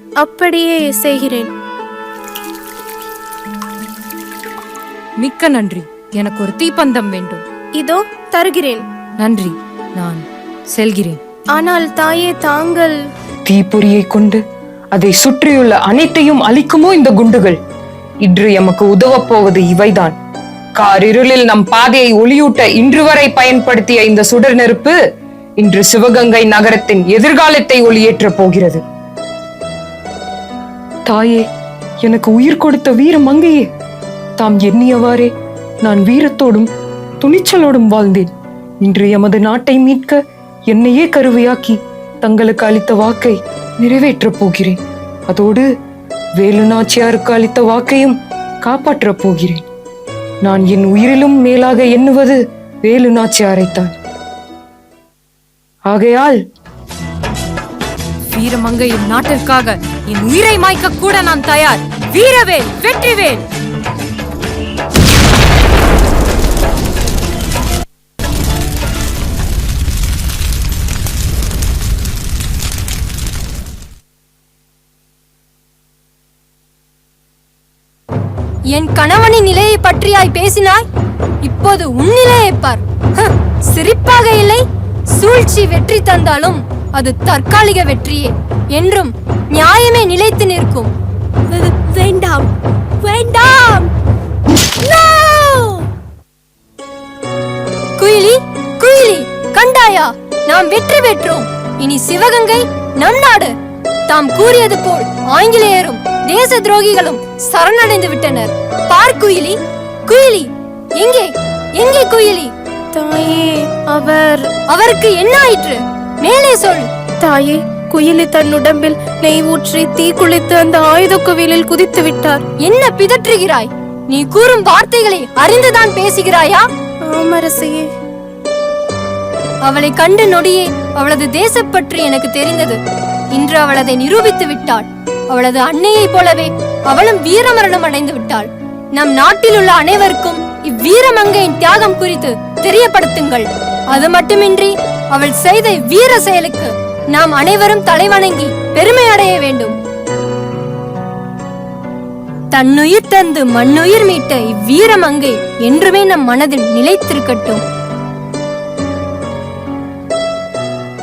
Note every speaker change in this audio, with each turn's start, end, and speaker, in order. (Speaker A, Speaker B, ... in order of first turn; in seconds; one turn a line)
Speaker A: 0.2-1.5
Speaker B: 5.2-7.4
Speaker A: 7.8-8.8
Speaker B: 9.2-11.2
Speaker A: 11.5-13.0
Speaker C: 13.5-14.4
Speaker C: 14.9-17.6
Speaker C: 18.2-20.2
Speaker C: 20.8-25.0
Speaker C: 25.6-28.8
Speaker C: 31.1-31.5
Speaker C: 32.0-33.7
Speaker C: 34.4-35.3
Speaker C: 35.8-36.7
Speaker C: 37.2-38.3
Speaker C: 38.8-45.7
Speaker C: 46.4-49.6
Speaker C: 50.4-53.9
Speaker C: 55.9-56.4
Speaker B: 58.3-63.4
Speaker D: 78.7-80.8
Speaker D: 81.4-84.6
Speaker D: 85.2-90.9
Speaker E: 91.5-92.5
Speaker E: 93.0-93.9
Speaker E: 94.8-95.7
Speaker D: 98.0-103.5
Speaker D: 104.1-109.5
Speaker D: 110.1-112.5
Speaker A: 112.9-114.5
Speaker D: 114.7-116.9
Speaker A: 117.2-122.4
Speaker D: 122.6-126.6
Speaker A: 127.0-127.9
Speaker D: 129.6-132.8
Speaker D: 133.3-149.7
Speaker D: 152.5-157.6